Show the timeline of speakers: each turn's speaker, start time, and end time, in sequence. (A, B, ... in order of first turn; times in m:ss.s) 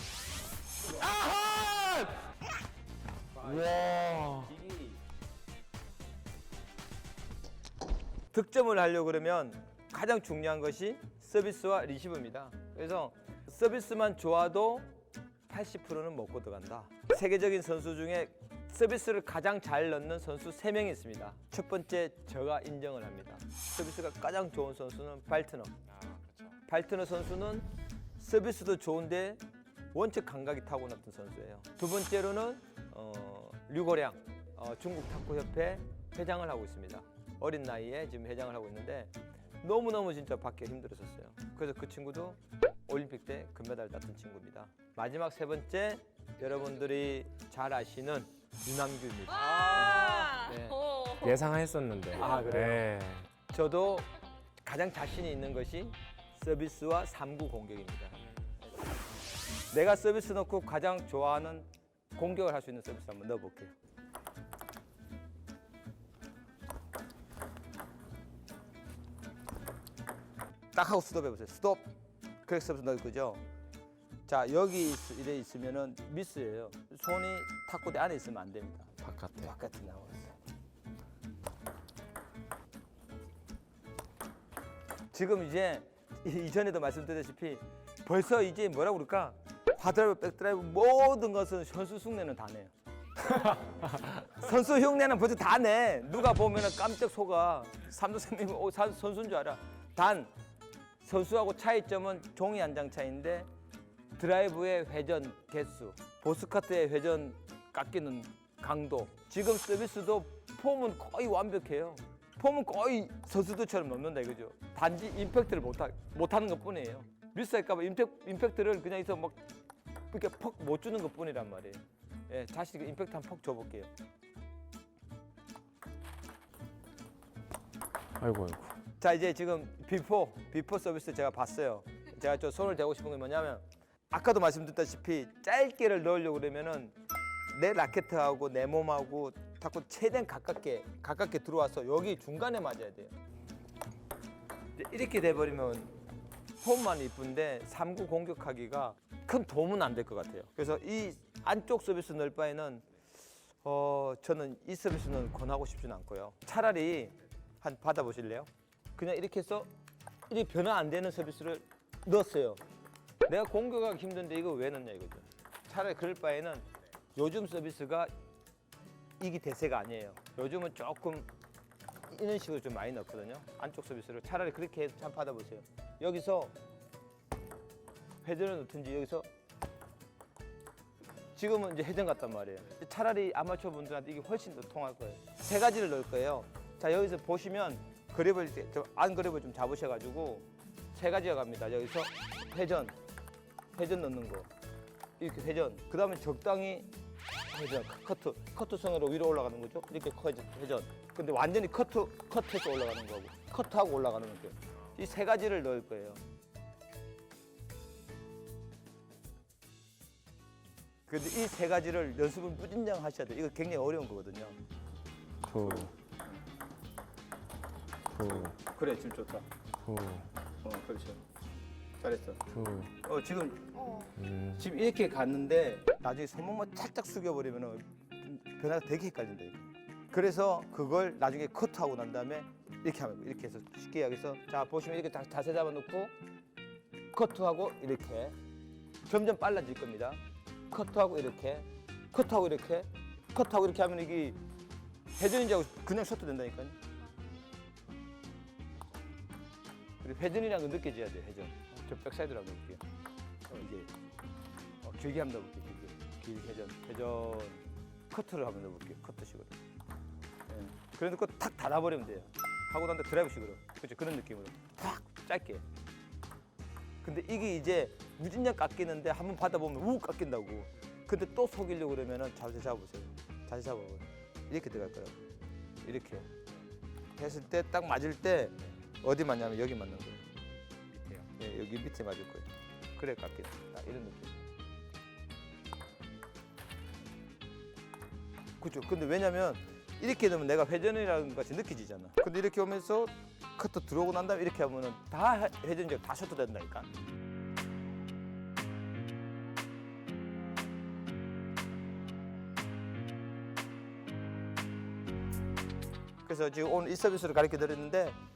0:01.0-0:02.2 A
0:03.3-0:05.0 B
0:03.4-0:04.5 A
0:08.3-0:15.0 B
0:15.5-0:25.8 B
0:25.9-0:26.6 A
0:26.7-0:50.8 B
0:49.4-0:51.1 C
0:51.1-0:53.3 A
0:52.1-0:52.9 B
0:53.5-0:54.1 B
0:54.6-0:58.2 B
0:59.7-1:03.7 B
1:10.7-1:13.4 B
1:14.3-1:20.3 B
1:19.0-1:19.6 A
1:25.1-1:40.3 B
1:41.0-1:43.5 B
1:44.2-1:59.4 B
2:00.1-2:03.9 B
2:08.2-2:08.8 A
2:09.0-2:17.0 B
2:17.5-2:23.2 B
2:24.8-2:26.0 B
2:26.6-2:32.9 B
2:33.6-2:39.7 B
2:40.3-2:42.6 B
2:43.3-2:48.1 B
2:49.2-2:51.3 B
2:52.1-2:56.6 B
2:58.2-2:59.3 B
3:01.4-3:13.0 B
3:13.8-3:14.5 B
3:15.2-3:16.9 B
3:17.5-3:26.2 B
3:31.1-3:34.6 B
3:35.4-3:35.9 A
3:35.6-3:36.4 B
3:38.1-3:38.5 A
3:38.2-3:39.5 B
3:39.8-3:40.3 A
3:40.6-3:41.2 B
3:42.0-3:42.4 B
3:42.5-3:42.9 A
3:43.0-3:43.8 B
3:43.7-3:44.1 C
3:44.2-3:44.6 A
3:44.6-3:56.1 B
3:57.1-3:58.4 B
3:59.0-4:00.2 B
4:00.7-4:04.4 B
4:05.2-4:06.8 B
4:10.0-4:12.8 B
4:13.5-4:13.9 B
4:14.8-4:19.6 B
4:20.5-4:25.6 B
4:27.0-4:35.2 B
4:35.8-4:36.3 B
4:37.2-4:40.3 B
4:40.9-4:44.5 B
4:48.6-4:56.9 B
5:06.2-5:08.2 B